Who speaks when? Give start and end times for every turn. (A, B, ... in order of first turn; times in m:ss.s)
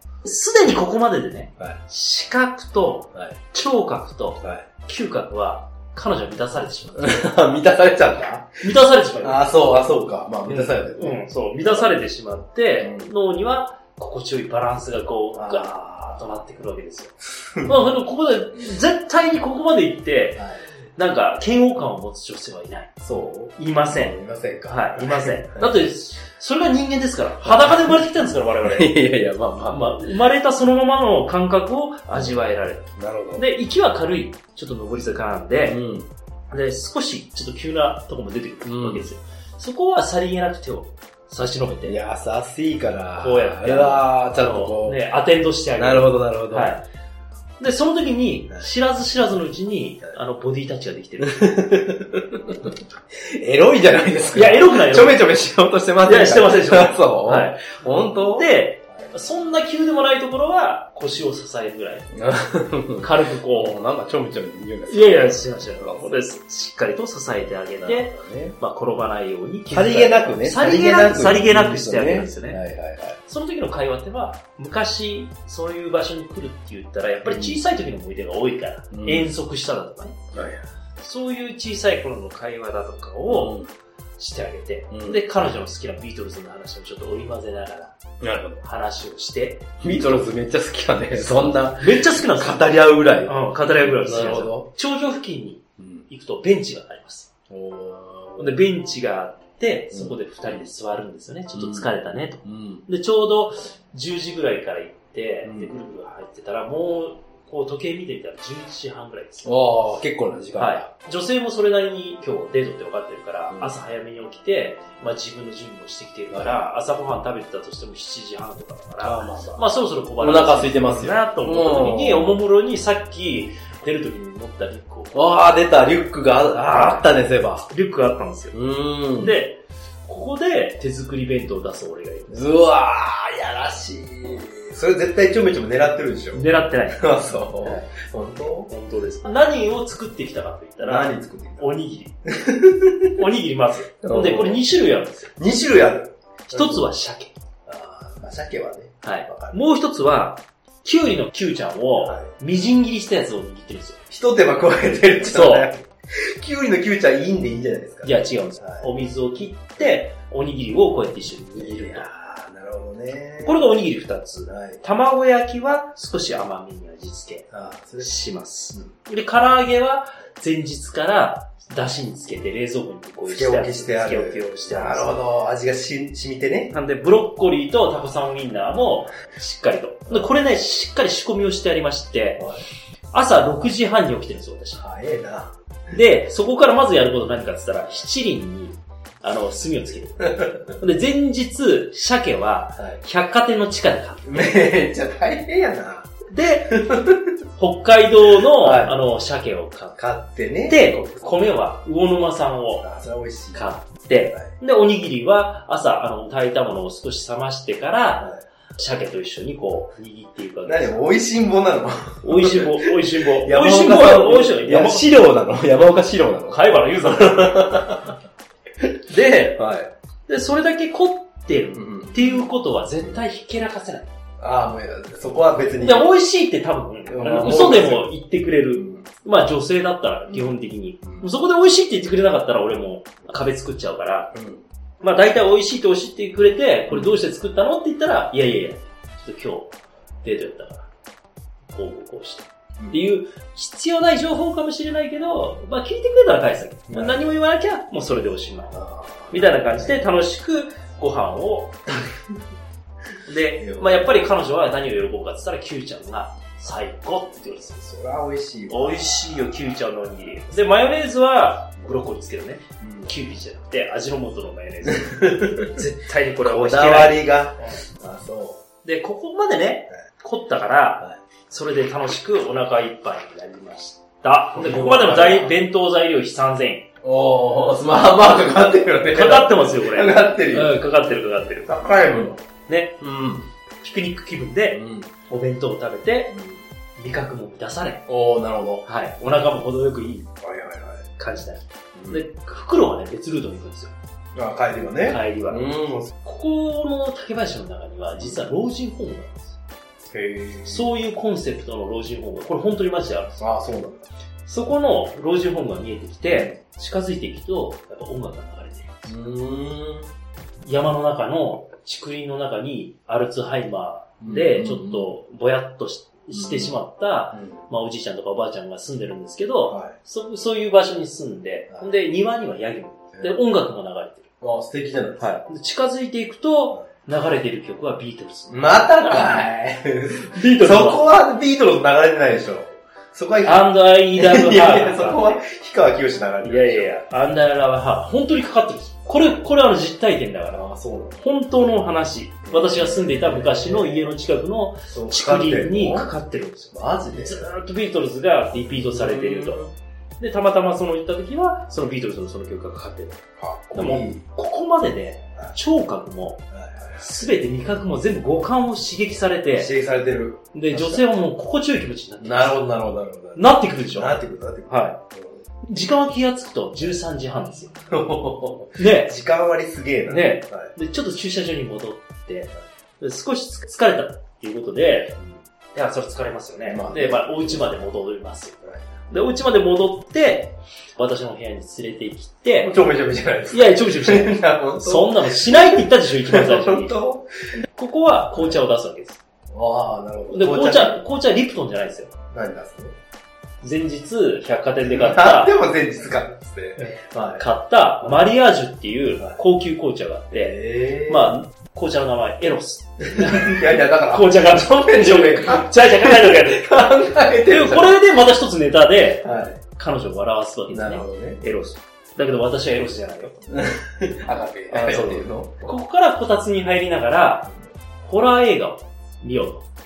0:00.2-0:07.2 A
0:04.4-0:04.7 B
0:07.0-0:08.6 B
0:08.6-0:09.5 A
0:09.2-0:11.2 B
0:10.5-0:20.4 A
0:12.8-0:13.1 B
0:15.3-0:16.2 B
0:17.4-0:17.7 B
0:21.0-0:23.0 A
0:23.0-0:25.9 B
0:23.5-0:24.1 A
0:24.7-0:29.0 A
0:27.4-0:27.9 B
0:28.6-0:30.1 B
0:29.6-0:35.8 A
0:32.9-0:33.4 B
0:35.6-0:36.1 B
0:36.5-0:42.0 A
0:38.6-0:39.0 B
0:41.8-0:45.0 B
0:43.2-0:46.8 A
0:45.8-0:46.7 B
0:47.6-0:51.6 A
0:51.3-0:59.1 B
0:54.3-0:55.2 A
0:56.0-1:02.1 A
1:02.1-1:06.2 B
1:03.0-1:03.8 A
1:04.9-1:12.6 A
1:07.8-1:08.6 B
1:09.7-1:13.2 B
1:13.3-1:20.2 A
1:17.3-1:17.6 B
1:18.9-1:19.3 B
1:20.3-1:20.7 B
1:21.0-1:23.6 A
1:23.3-1:23.7 B
1:24.2-1:27.9 A
1:24.9-1:25.2 B
1:28.2-1:28.6 B
1:28.6-1:30.2 A
1:29.8-1:34.7 B
1:31.8-1:32.7 A
1:33.2-1:37.3 A
1:35.8-1:36.0 B
1:37.5-1:38.6 B
1:38.4-1:49.6 A
1:39.9-1:40.6 B
1:41.5-1:41.9 B
1:42.4-1:42.8 B
1:45.4-1:45.7 B
1:49.4-1:50.9 B
1:50.6-2:05.1 A
1:56.3-1:56.6 B
1:59.0-2:02.4 B
2:05.1-2:07.6 B
2:06.7-2:07.0 A
2:07.6-2:08.6 A
2:08.5-2:09.4 B
2:09.1-2:12.5 A
2:12.3-2:18.7 B
2:16.3-2:17.0 A
2:17.6-2:17.9 A
2:18.7-2:22.1 A
2:20.8-2:21.7 B
2:22.3-2:23.1 B
2:23.1-2:25.3 A
2:24.0-2:24.6 B
2:25.4-2:26.9 B
2:26.5-2:27.4 A
2:27.6-2:29.6 B
2:29.0-2:34.0 A
2:32.0-2:32.3 B
2:34.1-2:38.9 B
2:35.2-2:35.7 A
2:38.0-2:42.1 A
2:41.5-2:43.8 B
2:43.4-2:55.2 A
2:44.4-2:44.8 B
2:47.5-2:48.1 B
2:53.2-2:56.7 B
2:56.7-3:02.5 A
3:02.4-3:02.6 B
3:03.1-3:04.8 A
3:04.8-3:05.5 B
3:05.9-3:14.5 A
3:14.2-3:16.1 B
3:16.3-3:16.8 A
3:16.7-3:17.3 B
3:17.6-3:20.0 A
3:18.4-3:19.0 B
3:20.0-3:21.3 B
3:20.6-3:22.8 A
3:22.8-3:23.6 B
3:23.5-3:31.0 A
3:30.6-3:38.1 B
3:32.2-3:35.1 A
3:36.5-3:37.9 A
3:39.1-3:39.6 A
3:39.5-3:39.9 B
3:40.3-3:44.1 A
3:41.7-3:42.2 B
3:44.4-3:46.1 B
3:45.8-3:54.3 A
3:47.0-3:48.1 B
3:48.8-3:49.0 B
3:54.3-3:54.6 B
3:55.0-4:00.9 A
4:01.7-4:08.8 A
4:06.9-4:07.2 B
4:08.7-4:10.0 B
4:09.3-4:11.8 A
4:13.2-4:17.9 A
4:13.6-4:14.2 B
4:17.8-4:19.5 B
4:18.7-4:27.8 A
4:22.8-4:23.1 B
4:24.8-4:25.7 B
4:26.4-4:28.6 B
4:28.8-4:36.9 A
4:34.5-4:35.6 B
4:37.0-4:40.8 B
4:39.1-4:43.0 A
4:41.6-4:42.4 B
4:43.0-4:43.5 B
4:43.8-4:46.4 A
4:44.7-4:45.1 B
4:47.0-4:48.1 A
4:48.1-4:48.8 B
4:48.8-4:50.3 A
4:50.4-4:51.1 B
4:51.2-4:53.9 A
4:51.9-4:52.2 B
4:54.3-4:56.1 B
4:55.1-4:59.6 A
5:00.1-5:00.9 B
5:00.6-5:03.4 A
5:03.4-5:04.1 B
5:04.5-5:09.1 A
5:06.3-5:06.6 B
5:09.0-5:10.1 B
5:10.6-5:24.3 A
5:14.2-5:15.1 B
5:16.3-5:16.7 B
5:17.3-5:17.6 B
5:19.7-5:19.9 B
5:24.4-5:25.4 B
5:25.2-5:29.5 A
5:28.5-5:36.9 B
5:30.2-5:31.0 A
5:33.4-5:35.4 A
5:36.4-5:40.6 A
5:40.5-5:41.2 B
5:41.2-5:49.6 A
5:42.4-5:44.1 B
5:44.9-5:46.1 B
5:46.7-5:47.4 B
5:48.9-5:49.7 B
5:50.2-5:59.7 A
5:53.4-5:54.2 B
5:56.5-5:57.0 B
5:59.5-6:01.0 B
6:00.5-6:02.6 A
6:02.2-6:05.4 B
6:03.3-6:04.2 A
6:04.7-6:05.0 A
6:05.6-6:07.8 A
6:07.9-6:10.7 B
6:08.8-6:09.1 A
6:10.1-6:15.2 A
6:15.7-6:18.6 A
6:16.7-6:17.7 B
6:18.6-6:18.9 B
6:19.1-6:22.7 A
6:22.6-6:27.6 B
6:23.5-6:27.0 A
6:27.7-6:29.2 A
6:29.5-6:31.0 B
6:30.3-6:32.2 A
6:32.3-6:32.9 B
6:33.6-6:35.5 A
6:34.9-6:37.4 B
6:36.8-6:46.8 A
6:40.3-6:41.4 B
6:43.0-6:48.0 B
6:47.4-6:53.5 A
6:49.2-6:49.6 B
6:50.7-6:51.4 B
6:53.5-6:55.6 B
6:54.7-6:57.5 A
6:58.0-6:59.6 A